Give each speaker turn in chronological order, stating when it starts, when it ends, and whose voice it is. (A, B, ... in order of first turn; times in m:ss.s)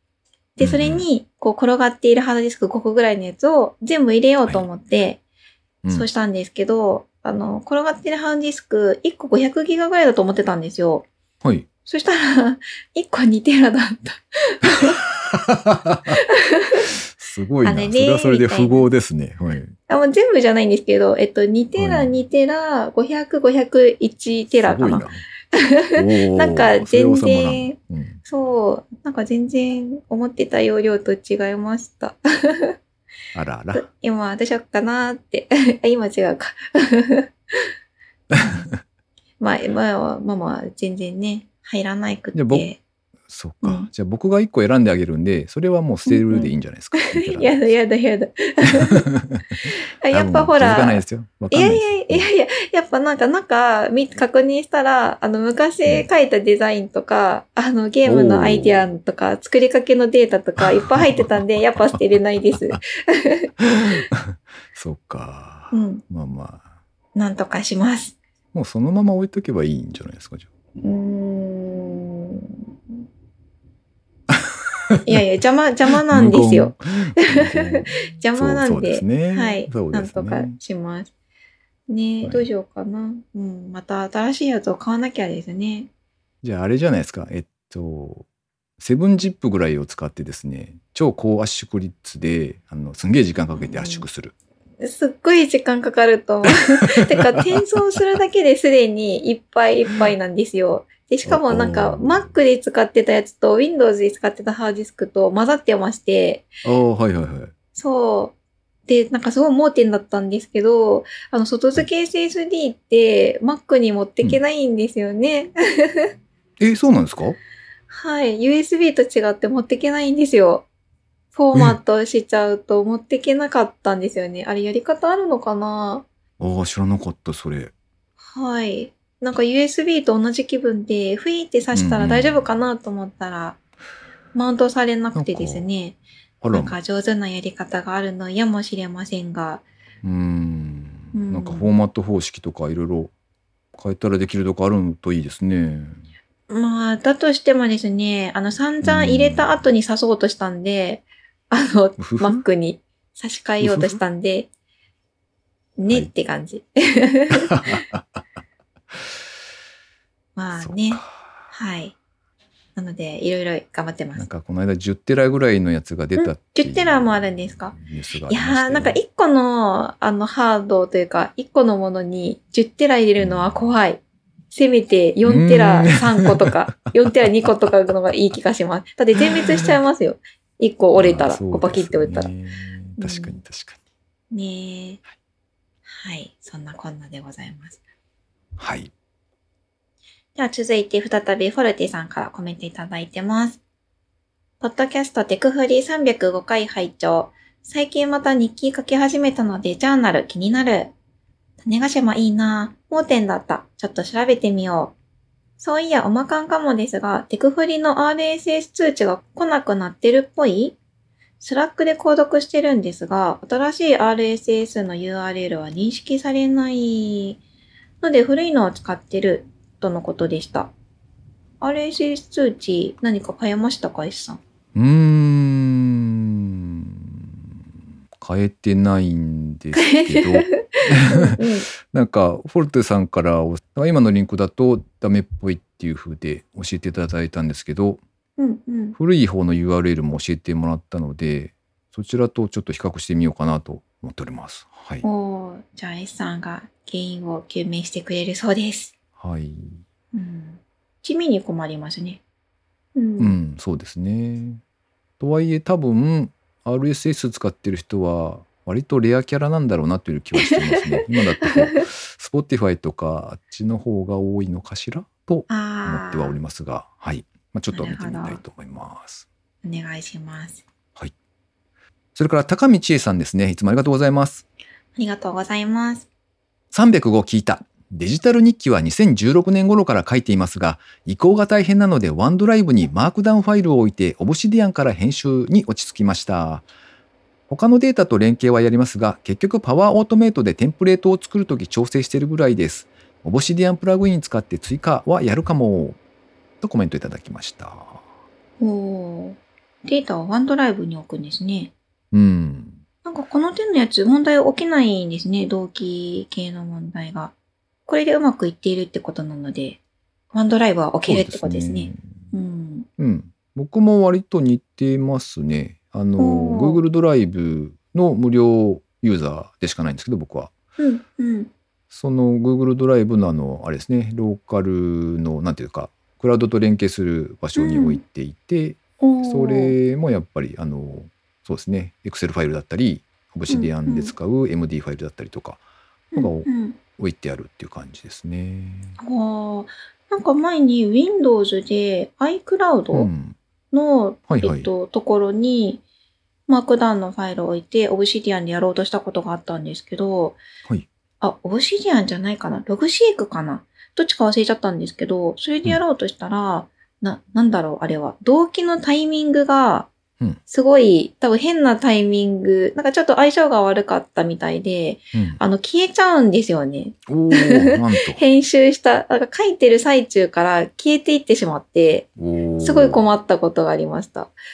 0:00.6-0:05.2 A
0:00.6-0:01.0 B
0:05.9-0:11.1 A
0:11.4-0:11.7 B
0:11.8-0:15.0 A
0:15.2-0:16.2 B
0:16.3-0:16.8 A
0:16.9-0:19.8 B
0:17.6-0:18.8 A
0:19.9-0:32.8 A
0:21.8-0:22.2 B
0:24.5-0:25.2 B
0:26.0-0:28.2 B
0:33.3-0:33.8 B
0:33.7-0:37.7 A
0:38.3-0:38.8 B
0:39.4-0:42.8 A
0:42.3-0:42.7 B
0:43.3-0:47.7 B
0:43.6-0:43.9 A
0:46.1-0:49.0 A
0:48.7-0:52.3 B
0:49.6-1:03.5 A
0:58.0-0:58.9 B
1:00.6-1:02.8 B
1:03.6-1:06.6 B
1:05.7-1:06.0 A
1:07.1-1:08.2 A
1:08.5-1:10.5 B
1:10.8-1:13.0 A
1:14.3-1:15.2 B
1:15.0-1:21.1 A
1:16.1-1:20.6 B
1:21.9-1:25.9 A
1:22.2-1:22.5 B
1:26.4-1:28.2 B
1:28.8-1:34.3 B
1:33.6-1:34.0 A
1:34.8-1:46.5 A
1:41.2-1:42.3 B
1:46.6-1:47.5 B
1:47.7-1:48.3 A
1:48.9-1:56.1 A
1:56.6-1:57.4 B
1:57.9-2:00.6 A
2:01.3-2:06.0 A
2:06.4-2:07.7 B
2:08.2-2:13.6 A
2:11.7-2:12.4 B
2:14.3-2:16.0 A
2:15.1-2:15.7 B
2:16.4-2:16.8 B
2:16.5-2:19.6 A
2:20.0-2:23.1 B
2:21.1-2:21.7 A
2:23.7-2:26.0 B
2:26.5-2:34.5 A
2:28.8-2:29.6 B
2:32.0-2:32.4 B
2:33.6-2:34.0 B
2:35.8-2:37.8 A
2:37.4-2:38.2 B
2:40.4-2:41.9 A
2:40.5-2:41.4 B
2:42.8-2:44.3 A
2:44.1-2:49.0 B
2:46.2-3:02.3 A
2:53.2-2:53.7 B
2:55.2-2:56.9 B
2:59.2-2:59.7 B
3:00.9-3:03.8 B
3:03.0-3:03.4 A
3:04.3-3:05.0 A
3:05.8-3:07.8 A
3:08.6-3:08.9 B
3:10.3-3:13.6 A
3:14.6-3:20.9 A
3:21.6-3:25.0 A
3:25.6-3:30.8 A
3:31.4-3:37.4 A
3:38.0-3:40.7 A
3:41.6-3:44.4 A
3:44.7-3:46.9 B
3:48.2-3:58.0 B
3:49.7-3:51.7 A
3:58.4-3:59.0 A
3:59.0-4:05.0 B
4:05.0-4:08.9 A
4:09.2-4:09.8 B
4:10.1-4:12.2 A
4:12.9-4:13.4 A
4:13.2-4:14.6 B
4:15.2-4:29.2 B
4:20.4-4:20.8 A
4:21.4-4:21.8 A
4:25.5-4:26.4 A
4:27.7-4:28.4 A
4:29.6-4:30.6 A
4:32.1-4:34.4 B
4:35.0-4:36.1 A
4:36.7-4:46.6 B
4:47.5-4:56.0 B
4:56.6-4:58.0 B
4:58.6-5:01.7 A
5:02.1-5:02.8 B
5:03.0-5:07.3 A
5:07.9-5:09.8 A
5:10.3-5:12.9 A
5:11.0-5:12.2 B
5:13.0-5:20.6 B
5:16.2-5:16.8 A
5:20.8-5:21.5 A
5:21.9-5:35.6 B
5:27.6-5:28.0 A
5:29.0-5:29.8 A
5:33.5-5:34.1 A
5:36.1-5:36.8 A
5:36.2-5:39.0 B
5:39.0-5:43.1 A
5:42.9-5:43.4 B
5:43.7-5:45.8 A
5:44.3-5:44.7 B
5:46.5-5:50.4 A
5:51.2-5:59.9 A
6:00.5-6:14.3 A
6:05.1-6:05.4 B
6:07.1-6:08.2 B
6:12.2-6:13.0 B